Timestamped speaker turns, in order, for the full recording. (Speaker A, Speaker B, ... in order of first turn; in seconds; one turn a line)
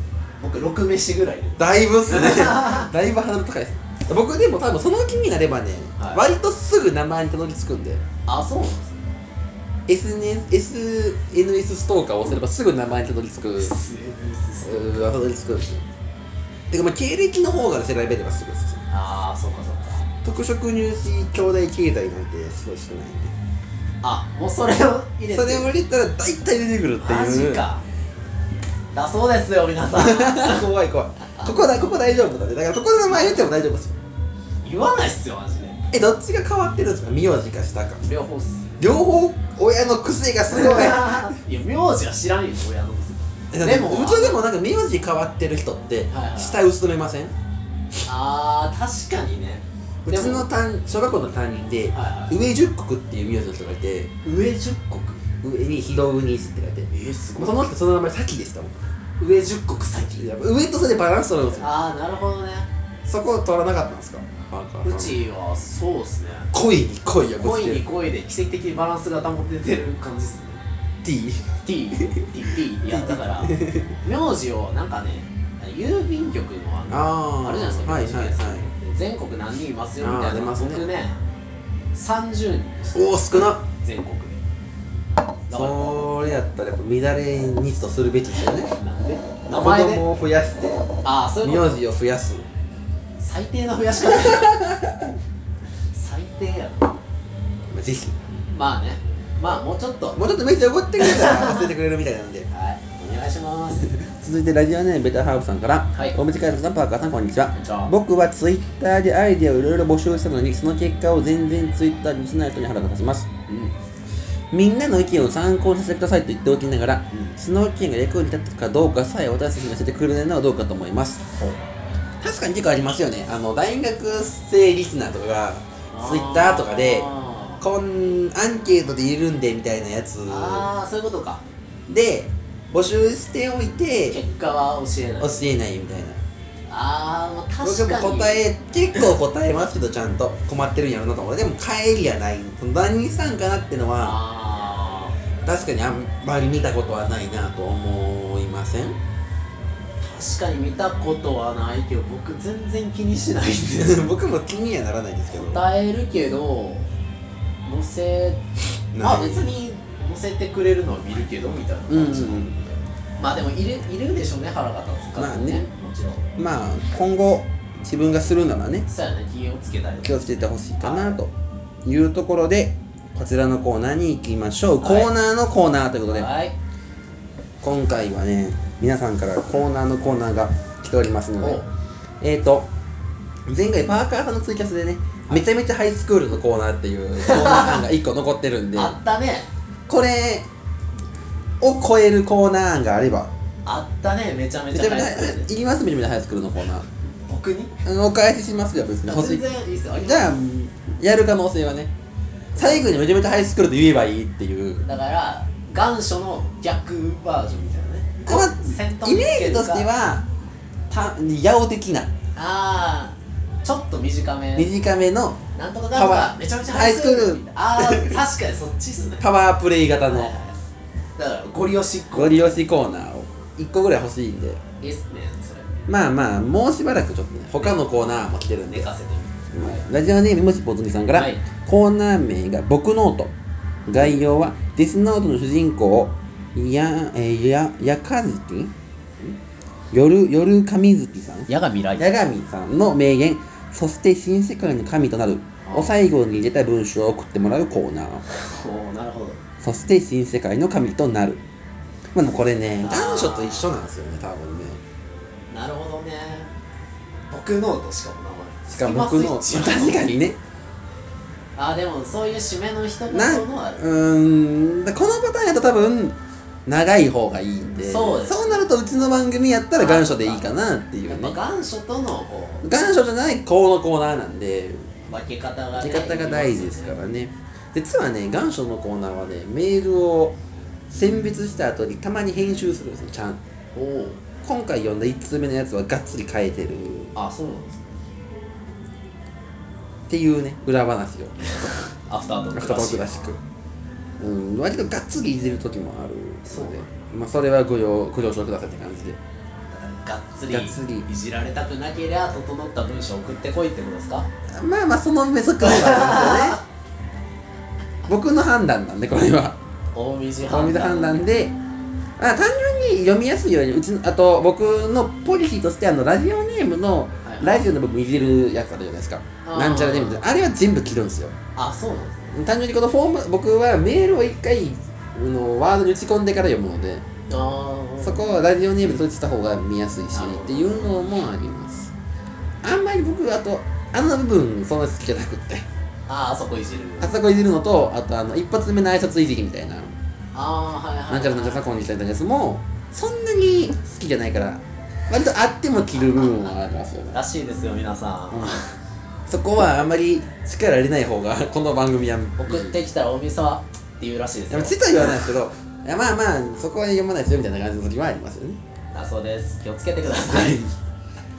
Speaker A: 0.4-2.9
Speaker B: 1.6-8.0
Speaker A: 6.0-6.2
Speaker A: 8.3-9.0
Speaker B: 9.9-13.7
Speaker A: 13.6-15.0
Speaker B: 14.6-15.8
Speaker B: 16.7-18.8
Speaker A: 18.9-20.1
Speaker B: 20.2-23.3
Speaker A: 24.0-25.7
Speaker B: 25.3-27.6
Speaker A: 27.0-27.9
Speaker A: 28.9-30.6
Speaker B: 29.9-34.0
Speaker A: 31.4-31.6
Speaker A: 33.1-33.5
Speaker A: 34.6-35.8
Speaker B: 35.9-38.1
Speaker A: 38.0-38.7
Speaker B: 38.8-41.4
Speaker A: 40.5-44.4
Speaker B: 43.5-47.3
Speaker A: 46.1-46.6
Speaker A: 48.1-50.5
Speaker B: 50.0-54.1
Speaker A: 51.9-52.4
Speaker A: 54.2-55.2
Speaker B: 55.4-58.8
Speaker A: 56.9-57.6
Speaker A: 59.2-60.2
Speaker B: 60.2-61.7
Speaker A: 61.6-62.7
Speaker B: 63.1-65.2
Speaker A: 64.8-66.5
Speaker B: 66.5-67.8
Speaker A: 67.4-70.6
Speaker B: 71.0-72.3
Speaker A: 71.6-81.2
Speaker B: 72.9-74.0
Speaker B: 76.9-78.7
Speaker B: 80.0-80.8
Speaker A: 81.9-84.4
Speaker B: 83.0-83.6
Speaker A: 85.5-86.1
Speaker B: 85.5-88.7
Speaker A: 88.7-90.0
Speaker B: 89.5-92.5
Speaker A: 91.0-91.8
Speaker A: 93.2-94.6
Speaker B: 94.1-95.1
Speaker A: 95.9-97.0
Speaker B: 97.7-98.2
Speaker A: 98.5-100.2
Speaker B: 100.2-102.5
Speaker A: 101.0-101.7
Speaker A: 102.5-104.0
Speaker B: 103.9-113.3
Speaker A: 107.5-107.9
Speaker A: 113.5-113.7
Speaker B: 114.5-121.3
Speaker B: 122.2-127.1
Speaker A: 125.9-127.6
Speaker B: 127.6-130.7
Speaker A: 130.3-131.4
Speaker B: 131.9-134.2
Speaker A: 134.1-135.4
Speaker B: 135.2-136.2
Speaker A: 136.7-138.4
Speaker B: 137.6-144.2
Speaker A: 144.0-145.2
Speaker B: 145.4-149.0
Speaker A: 150.0-154.2
Speaker B: 153.8-155.7
Speaker A: 155.3-156.9
Speaker A: 157.7-158.4
Speaker B: 158.9-159.5
Speaker A: 159.0-162.5
Speaker B: 161.9-162.8
Speaker A: 163.2-166.3
Speaker B: 165.2-165.7
Speaker B: 166.4-168.9
Speaker A: 168.9-171.2
Speaker B: 170.0-171.3
Speaker B: 171.8-176.3
Speaker A: 174.8-175.1
Speaker A: 176.1-176.5
Speaker B: 177.6-181.6
Speaker A: 181.4-181.7
Speaker B: 182.2-182.7
Speaker B: 183.5-189.0
Speaker A: 187.2-187.8
Speaker A: 188.8-189.5
Speaker B: 189.9-190.5
Speaker B: 191.6-193.3
Speaker A: 193.7-195.5
Speaker B: 194.7-196.9
Speaker A: 197.3-197.8
Speaker B: 197.8-199.4
Speaker A: 199.1-200.4
Speaker B: 200.0-201.9
Speaker A: 202.6-202.9
Speaker B: 202.6-204.8
Speaker A: 204.8-209.9
Speaker B: 208.2-210.3
Speaker B: 210.9-212.1
Speaker A: 212.4-214.7
Speaker B: 214.6-218.2
Speaker A: 215.6-219.3
Speaker B: 219.2-220.3
Speaker A: 220.0-220.6
Speaker A: 221.2-222.6
Speaker B: 222.1-224.6
Speaker A: 224.8-225.9
Speaker B: 225.9-228.9
Speaker A: 228.7-229.8
Speaker B: 229.5-233.3
Speaker A: 231.1-231.4
Speaker B: 233.9-238.7
Speaker B: 239.9-248.2
Speaker A: 241.5-242.1
Speaker A: 245.7-245.9
Speaker A: 248.3-249.4
Speaker B: 249.6-251.4
Speaker B: 252.1-254.8
Speaker A: 252.8-253.7
Speaker A: 255.5-256.5
Speaker A: 257.3-260.1
Speaker B: 258.7-260.4
Speaker A: 261.6-263.8
Speaker B: 263.1-271.4
Speaker A: 267.8-268.7
Speaker A: 269.8-270.5
Speaker A: 271.1-272.7
Speaker B: 272.6-274.9
Speaker A: 275.1-277.0
Speaker B: 275.8-280.4
Speaker B: 280.9-283.4
Speaker A: 283.8-284.2
Speaker B: 284.4-287.1
Speaker A: 287.1-287.9
Speaker B: 290.1-291.4
Speaker A: 292.1-293.4
Speaker B: 292.5-293.4
Speaker B: 294.2-299.2
Speaker A: 296.5-296.9
Speaker A: 299.7-304.3
Speaker B: 300.5-301.1
Speaker B: 304.6-306.6
Speaker A: 305.6-306.6
Speaker B: 308.1-309.6
Speaker A: 309.9-311.2
Speaker B: 310.4-311.5
Speaker B: 312.2-321.3
Speaker A: 317.2-317.6
Speaker A: 319.4-320.2
Speaker A: 321.6-322.4
Speaker B: 322.3-327.1
Speaker A: 327.3-328.2
Speaker B: 328.0-331.9
Speaker A: 330.1-330.9
Speaker B: 332.6-335.6
Speaker A: 336.1-337.1
Speaker B: 337.0-339.9
Speaker A: 340.3-341.6
Speaker B: 341.1-347.2
Speaker A: 347.1-348.8
Speaker B: 348.3-348.6
Speaker B: 349.3-352.8
Speaker A: 352.4-355.1
Speaker B: 354.5-358.6
Speaker A: 358.9-360.6
Speaker B: 360.1-360.7